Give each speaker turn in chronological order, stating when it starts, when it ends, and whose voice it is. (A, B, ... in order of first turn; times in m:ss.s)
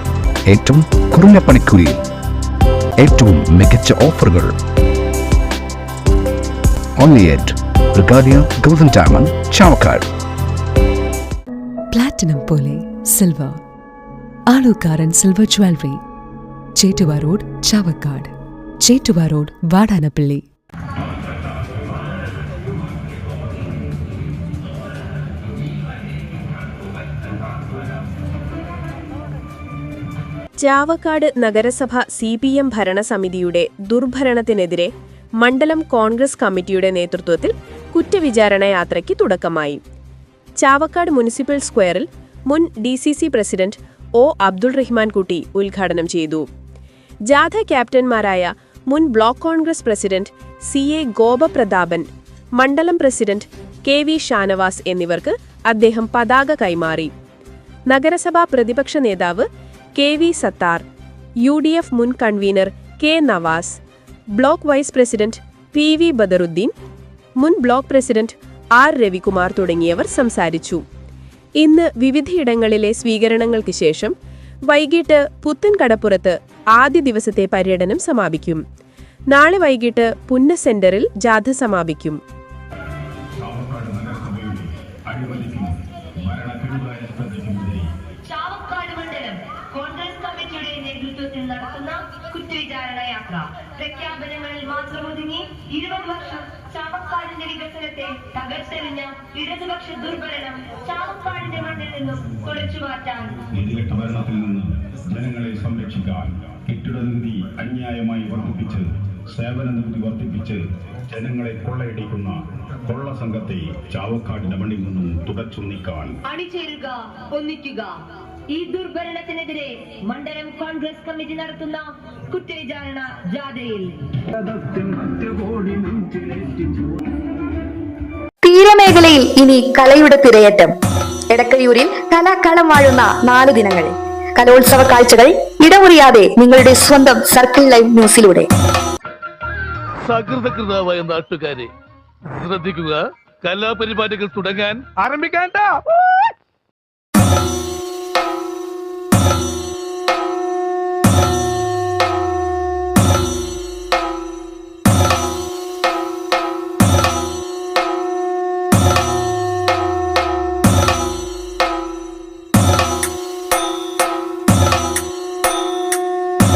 0:00.4-0:02.0 A
0:03.0-0:04.5 A
0:07.0-0:10.1 A
0:11.9-0:13.6 B
0:14.5-0:16.0 B
0:16.8-0:20.4 B
0:30.6-0:39.8 C
0:40.6-0:46.5 C
0:47.3-0:57.1 C
0:57.9-0:59.4 C
1:00.0-1:00.8 C
1:01.4-1:03.8 C
1:04.3-1:06.7 C
1:07.4-1:10.8 C
1:11.6-1:14.1 C
1:14.7-1:18.6 C
1:19.3-1:22.2 C
1:23.4-1:27.9 D
1:28.3-1:43.4 E
1:43.5-1:56.1 D
1:56.3-1:58.0 E
1:58.5-2:04.1 E
2:05.0-2:05.4 D
2:08.4-2:10.8 F
2:11.3-2:18.5 F
2:20.0-2:21.7 G
2:22.3-2:25.8 G